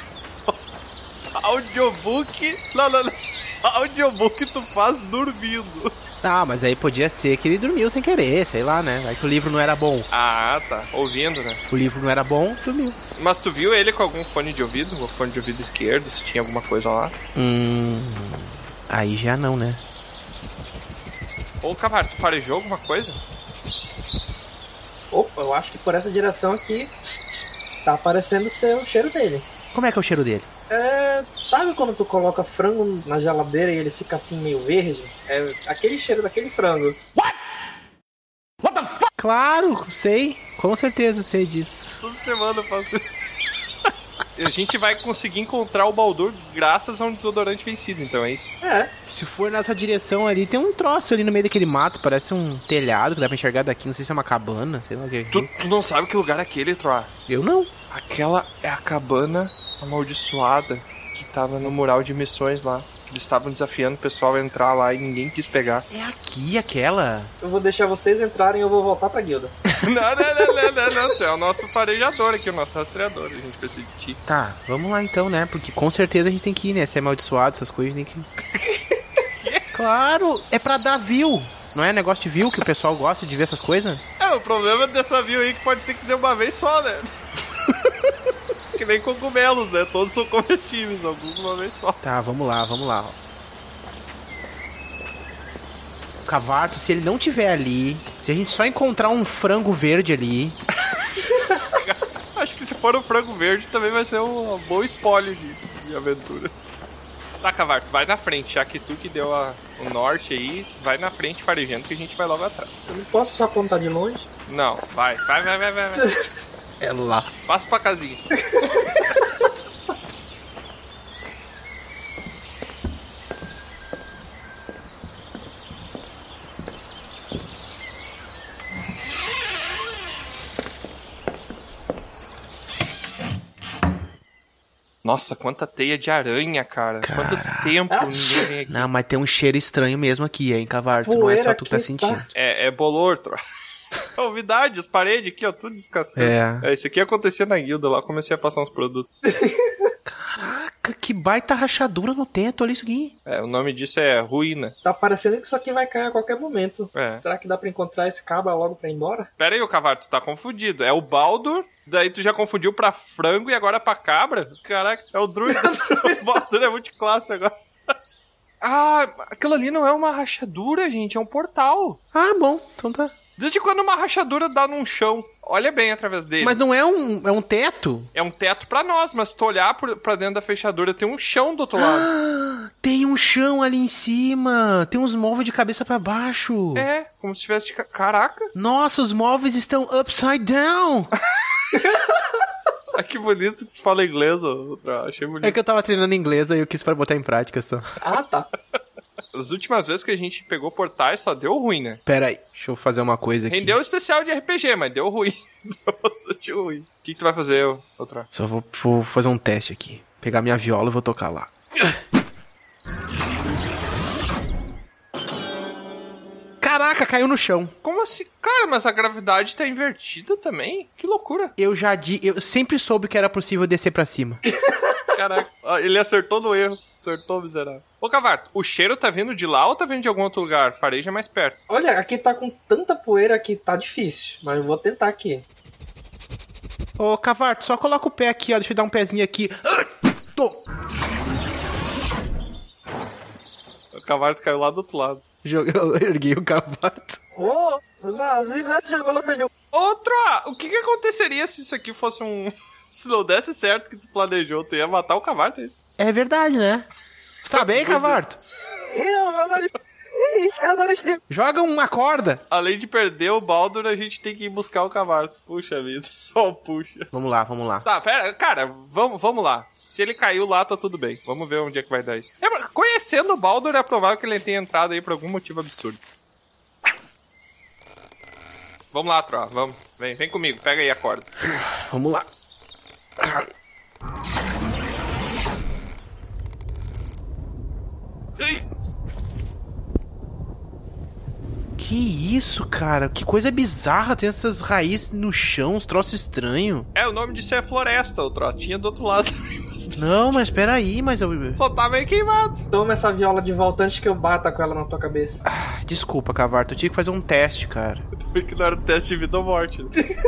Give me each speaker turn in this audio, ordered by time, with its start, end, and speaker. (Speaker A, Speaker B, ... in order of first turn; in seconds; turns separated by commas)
Speaker A: 1.3-5.9, Speaker B: 6.2-10.1, Speaker A: 10.1-11.6, Speaker B: 11.7-13.0, Speaker A: 13.2-17.1, Speaker B: 17.4-19.8, Speaker A: 21.6-23.2, Speaker C: 25.1-26.9, Speaker C: 27.9-29.5, Speaker B: 29.7-30.5, Speaker C: 30.7-37.0, Speaker B: 39.2-41.9, Speaker A: 42.0-43.0, Speaker A: 44.4-48.5, Speaker C: 48.6-48.9, Speaker B: 49.1-55.5, Speaker A: 55.3-57.1, Speaker B: 57.3-57.7, Speaker A: 57.9-65.9, Speaker B: 65.9-67.3, Speaker C: 67.4-69.5, Speaker A: 69.8-74.2, Speaker B: 74.3-78.3, Speaker A: 79.4-79.7, Speaker B: 79.7-84.0, Speaker A: 84.2-87.1, Speaker A: 88.7-92.0, Speaker B: 92.0-93.2, Speaker B: 96.2-100.6, Speaker A: 101.3-106.5, Speaker A: 107.4-112.9, Speaker C: 112.9-114.3, Speaker A: 114.5-116.1, Speaker B: 116.8-117.3, Speaker A: 117.5-118.2, Speaker A: 135.0-138.9, Speaker B: 137.0-137.8, Speaker C: 137.9-138.5, Speaker B: 138.7-142.3, Speaker C: 141.0-142.2, Speaker A: 142.3-143.4, Speaker A: 144.2-149.2, Speaker B: 146.2-146.7, Speaker C: 149.3-149.7, Speaker B: 150.1-153.1, Speaker A: 153.3-154.8, Speaker C: 154.8-159.3, Speaker A: 156.9-157.2, Speaker A: 159.4-167.5, Speaker C: 165.5-166.2, Speaker A: 168.6-172.0, Speaker B: 172.1-173.1, Speaker A: 173.4-176.6, Speaker B: 176.4-178.1, Speaker A: 178.2-182.1, Speaker B: 181.8-186.9, Speaker A: 186.8-188.5, Speaker B: 188.6-191.1, Speaker C: 191.7-192.1, Speaker A: 192.9-195.6, Speaker B: 195.4-197.9, Speaker C: 198.0-198.5, Speaker A: 199.3-202.0, Speaker B: 202.1-203.8, Speaker A: 203.5-208.3, Speaker B: 208.3-212.0, Speaker B: 216.6-217.7, Speaker A: 217.8-221.5, Speaker B: 221.6-224.4, Speaker C: 224.6-224.9, Speaker A: 225.1-231.6, Speaker C: 231.7-235.4, Speaker B: 237.0-240.6, Speaker A: 243.9-245.2, Speaker B: 245.4-247.2, Speaker C: 247.4-249.5, Speaker A: 249.7-255.8, Speaker B: 256.0-256.9, Speaker B: 257.4-258.4, Speaker A: 257.5-258.2, Speaker C: 258.9-261.2, Speaker B: 261.3-262.4, Speaker A: 262.5-267.1, Speaker B: 267.1-267.9, Speaker A: 267.9-276.0, Speaker A: 278.9-281.3, Speaker B: 281.4-282.3, Speaker B: 283.2-283.5, Speaker B: 291.8-296.9, Speaker A: 296.9-300.4, Speaker B: 300.0-301.6, Speaker A: 301.6-302.7, Speaker C: 302.7-305.4, Speaker B: 305.4-308.0, Speaker A: 308.3-309.9